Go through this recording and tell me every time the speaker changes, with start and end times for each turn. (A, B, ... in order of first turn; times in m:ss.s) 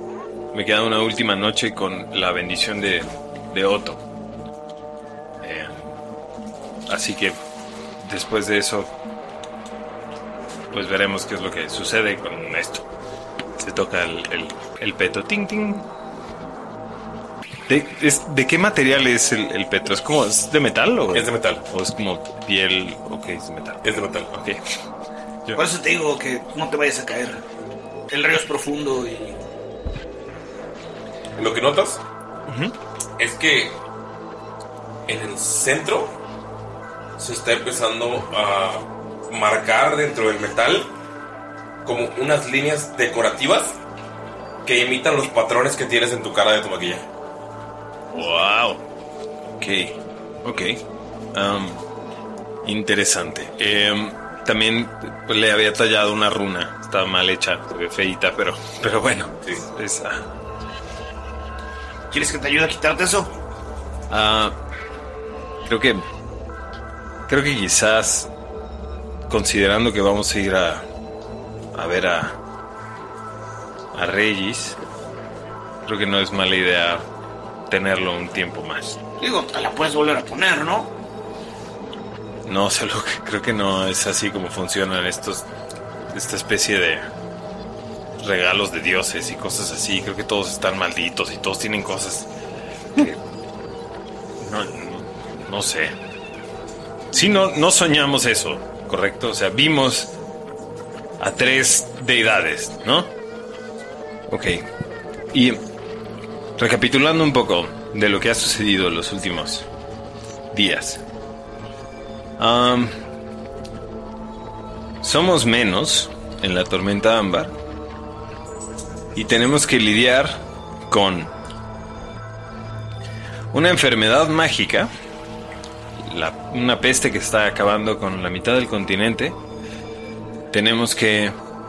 0:00.5-0:04.0 A
0:05.4-0:06.0 A
0:06.9-0:07.4 A
0:08.0-0:08.9 A
0:10.7-0:12.8 A
0:13.6-0:15.8 A
0:17.7-0:24.6 A
0:21.1-0:21.6 B
0:23.8-0:24.3 B
0:25.6-0:27.4 C
0:28.1-0:29.4 C
0:31.4-0:32.0 B
0:32.5-0:32.7 A
0:33.2-0:33.8 B
0:35.1-0:36.1 B
0:37.2-0:40.9 B
0:41.8-0:43.8 B
0:44.6-0:47.1 B
0:48.1-0:48.8 A
0:49.6-0:50.8 A
0:51.3-0:51.8 A
0:52.6-1:00.3 A
1:02.1-1:03.3 C
1:04.1-1:04.6 A
1:05.6-1:06.0 A
1:07.3-1:08.3 A
1:09.3-1:10.9 A
1:11.8-1:12.4 A
1:13.9-1:14.8 A
1:15.8-1:17.1 A
1:17.7-1:19.0 A
1:19.2-1:20.9 C
1:22.5-1:25.5 A
1:26.1-1:27.0 A
1:28.2-1:32.3 A
1:34.4-1:36.0 A
1:37.1-1:40.1 A
1:41.2-1:43.1 A
1:44.3-1:44.6 A
1:45.3-1:45.6 A
1:46.6-1:49.6 A
1:50.5-1:51.0 A
1:52.4-1:53.0 A
1:55.0-1:57.5 A
1:59.2-2:01.3 A
2:03.5-2:04.9 A
2:06.0-2:09.4 A
2:10.5-2:11.4 A